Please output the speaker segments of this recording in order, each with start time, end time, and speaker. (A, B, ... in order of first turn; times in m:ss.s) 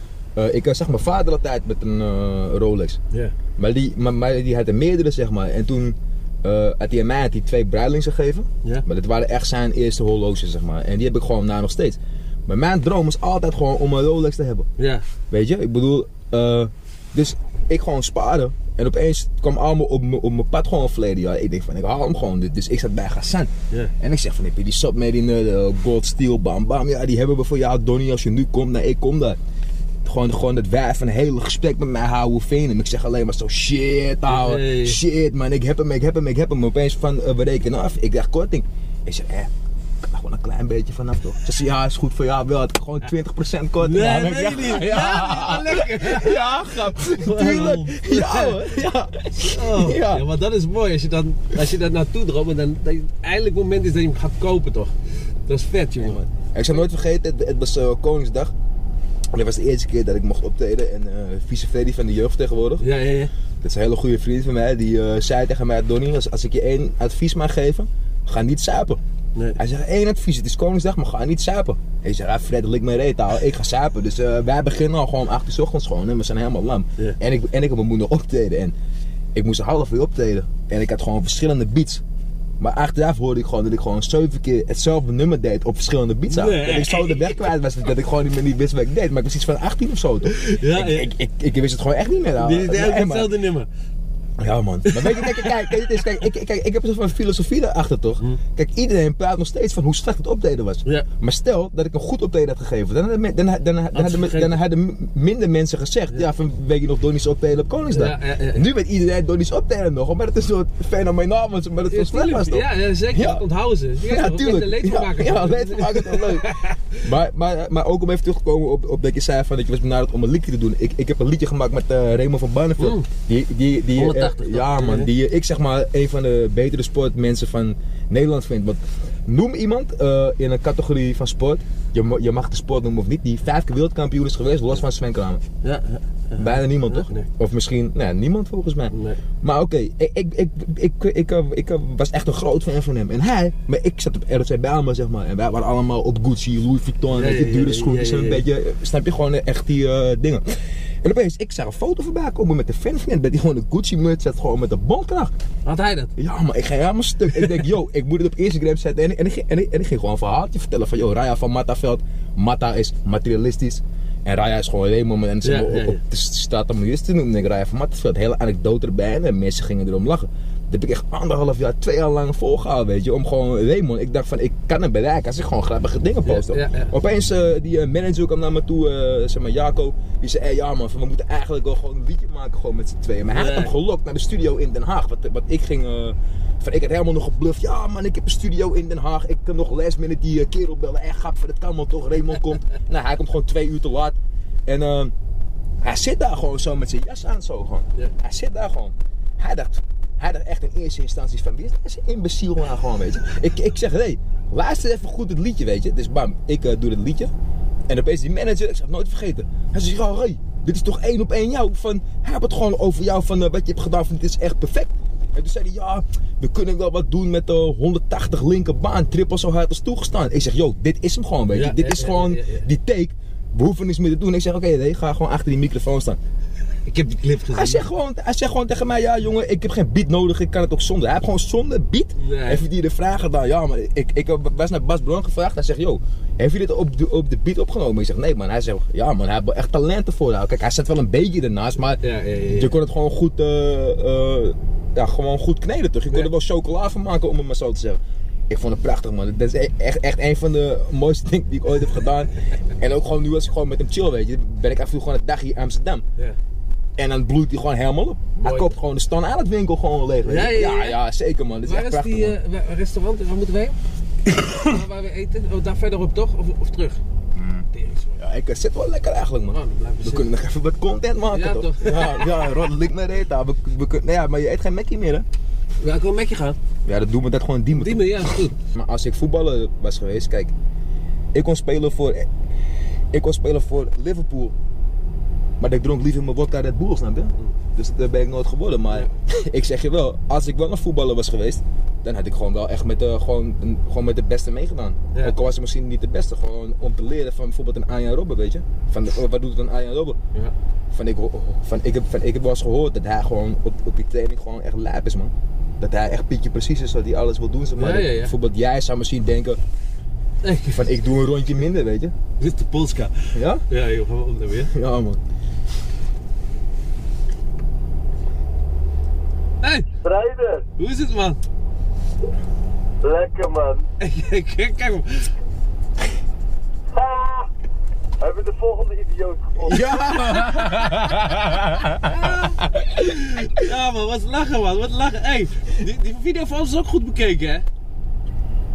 0:00.4-0:03.0 A
0:03.6-0:14.7 A
0:14.8-0:15.0 B
0:15.3-0:29.4 A
0:30.0-0:39.5 A
0:34.3-0:35.0 B
0:40.0-0:50.2 A
0:43.8-0:48.8 B
0:49.4-0:54.9 B
0:55.4-0:56.2 B
0:56.0-0:58.5 A
0:59.3-1:02.8 A
1:02.8-1:03.3 B
1:03.6-1:09.0 A
1:09.6-1:18.7 A
1:19.3-1:22.0 A
1:22.6-1:33.3 A
1:26.3-1:27.4 B
1:30.2-1:31.1 B
1:32.4-1:33.7 B
1:34.4-1:53.4 A
1:34.8-1:36.1 B
1:43.9-1:44.6 B
1:47.9-1:48.7 B
1:51.9-1:57.0 B
1:54.0-2:15.4 A
2:02.8-2:03.0 B
2:03.9-2:05.1 B
2:15.6-2:17.3 B
2:16.4-2:35.3 A
2:18.9-2:19.2 B
2:27.1-2:28.4 B
2:35.6-2:36.1 B
2:36.2-3:14.2 A
2:37.3-2:37.7 B
2:45.4-2:46.0 B
2:56.2-2:56.9 B
3:03.3-3:03.7 B
3:14.7-3:15.1 A
3:15.8-3:27.3 A
3:27.9-3:46.2 A
3:41.5-3:42.6 B
3:46.8-3:47.8 B
3:47.5-4:16.0 A
3:52.2-3:52.6 B
4:02.0-4:02.7 B
4:17.0-4:22.4 A
4:18.4-4:18.8 B
4:20.2-4:21.0 B
4:21.6-4:23.8 B
4:24.5-4:27.0 B
4:27.3-4:27.7 A
4:27.7-4:28.2 B
4:28.2-4:35.2 A
4:29.5-4:30.3 B
4:31.3-4:32.5 B
4:35.8-4:36.6 B
4:36.8-4:40.5 A
4:37.7-4:38.5 B
4:41.3-4:42.3 A
4:43.1-4:44.5 A
4:45.6-5:00.2 A
5:00.9-5:09.6 A
5:07.8-5:08.3 B
5:10.4-5:11.0 B
5:10.6-5:12.1 A
5:12.4-5:13.1 B
5:13.3-5:13.6 A
5:13.7-5:14.7 B
5:14.7-5:15.2 A
5:19.6-5:19.9 B
5:20.0-5:20.6 C
5:20.8-5:21.4 B
5:23.0-5:23.8 C
5:24.0-5:25.3 B
5:26.9-5:27.5 C
5:28.2-5:29.8 C
5:29.6-5:32.5 A
5:30.4-5:31.2 B
5:31.9-5:37.6 B